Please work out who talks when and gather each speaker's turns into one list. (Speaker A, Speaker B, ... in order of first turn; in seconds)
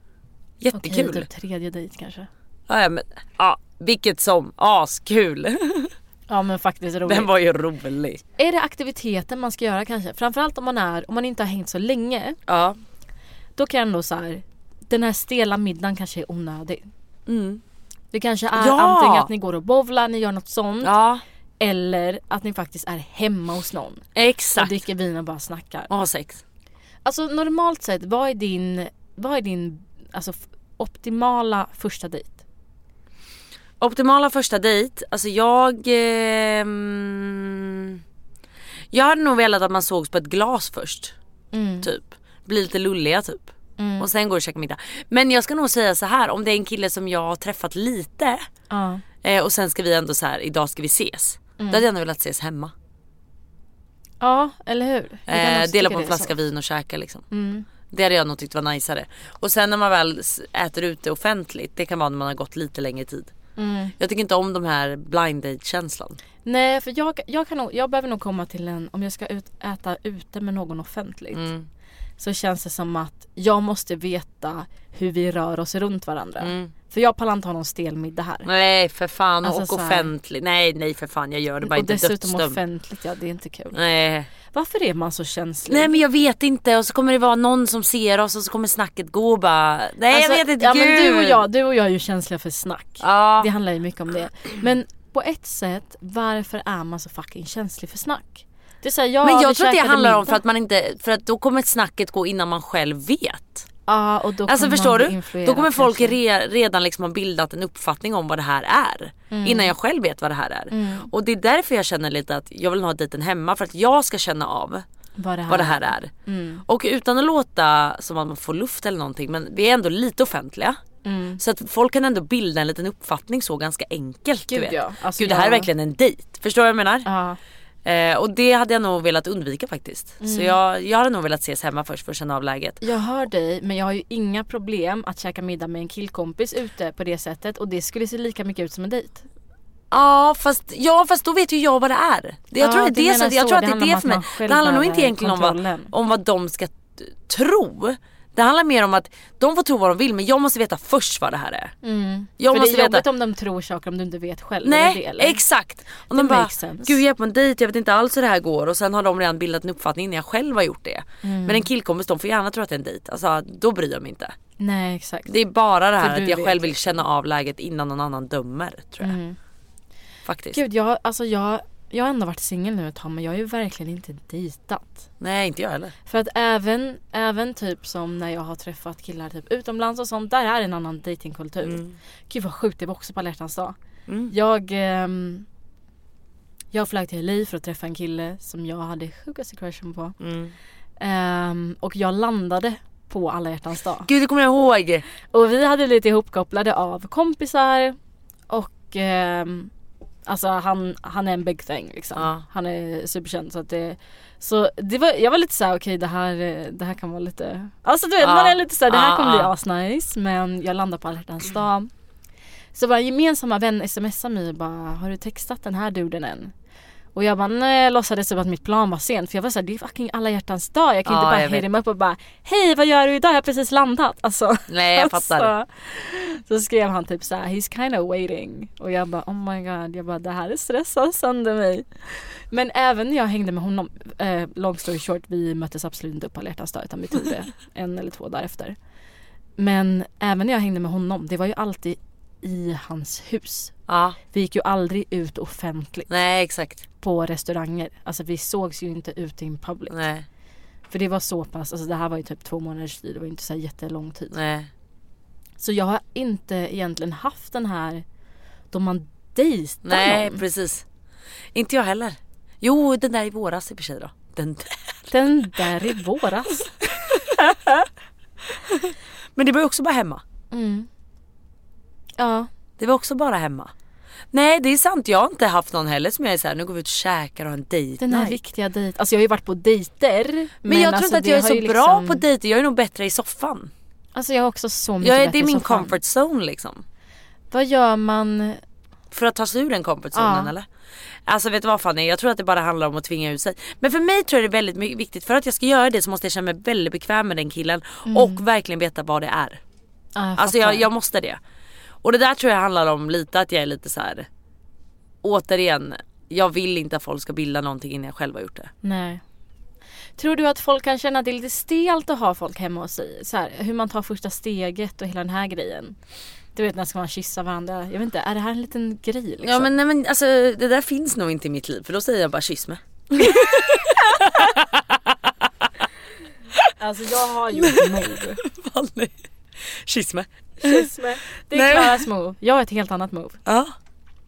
Speaker A: 0.6-1.2, 2.7-5.9, 7.0-8.2, 12.5-12.8, 17.3-17.6, 18.6-19.3, 20.8-21.2, 24.1-24.8, 25.9-26.4, 33.8-38.0, 38.9-41.1, 41.8-48.5, 49.2-52.7, 55.3-57.2, 57.9-63.3, 64.0-66.2, 71.3-71.7, 76.4-76.7, 78.4-82.6, 83.7-84.3, 85.7-91.4, 93.0-93.5, 99.2-103.7, 104.5-114.8, 115.5-116.1, 116.7-120.8, 121.4-127.1, 127.8-132.8, 139.9-151.7, 152.4-153.0, 154.6-164.3, 165.3-169.2, 170.2-170.6, 175.2-175.9, 181.6-181.9, 184.1-184.3, 190.2-190.5, 194.0-195.0, 202.2-202.4, 208.2-209.5, 221.1-221.6, 224.7-225.5, 243.9-244.2, 246.1-246.8, 249.9-250.2, 254.3-254.7, 259.8-260.8, 261.5-264.9, 268.7-270.2, 272.8-273.7, 274.3-278.4, 280.7-283.7, 285.0-286.8, 289.1-290.7, 291.3-299.6, 300.4-301.4, 302.0-304.3, 305.2-308.7, 319.4-325.6, 327.6-329.1, 329.9-330.9, 331.5-332.0, 333.4-333.7
Speaker B: 0.7-2.3, 6.3-7.3, 8.4-12.4, 13.6-16.8, 18.1-20.9, 21.6-24.0, 24.6-25.9, 27.0-32.4, 41.5-41.9, 43.8-44.1, 48.7-49.0, 51.6-51.8, 54.2-56.3, 57.3-57.7, 63.5-63.9, 66.4-71.4, 72.2-78.5, 79.4-80.1, 81.6-83.7, 84.5-86.0, 90.1-100.4, 103.9-106.2, 109.3-109.7, 110.7-111.1, 115.2-116.6, 121.0-121.4, 124.5-125.7, 127.0-127.4, 130.2-130.6, 132.8-139.2, 142.6-145.9, 151.8-155.4, 156.1-157.0, 161.2-161.7, 164.6-165.3, 166.0-167.0, 169.0-169.4, 170.5-175.0, 176.1-183.7, 184.3-185.4, 186.7-190.1, 191.0-194.1, 195.3-198.0, 198.5-199.7, 200.2-211.9, 212.7-216.5, 217.1-238.8, 239.6-243.7, 244.3-246.1, 247.0-250.0, 250.9-254.3, 255.6-258.0, 258.7-260.4, 265.1-267.8, 270.5-270.9, 272.2-272.5, 278.0-282.2, 284.1-285.9, 287.5-288.6, 290.1-290.5, 298.1-298.4, 300.1-300.9, 308.8-309.2, 310.2-315.9, 316.5-319.7, 326.8-328.4, 330.6-333.4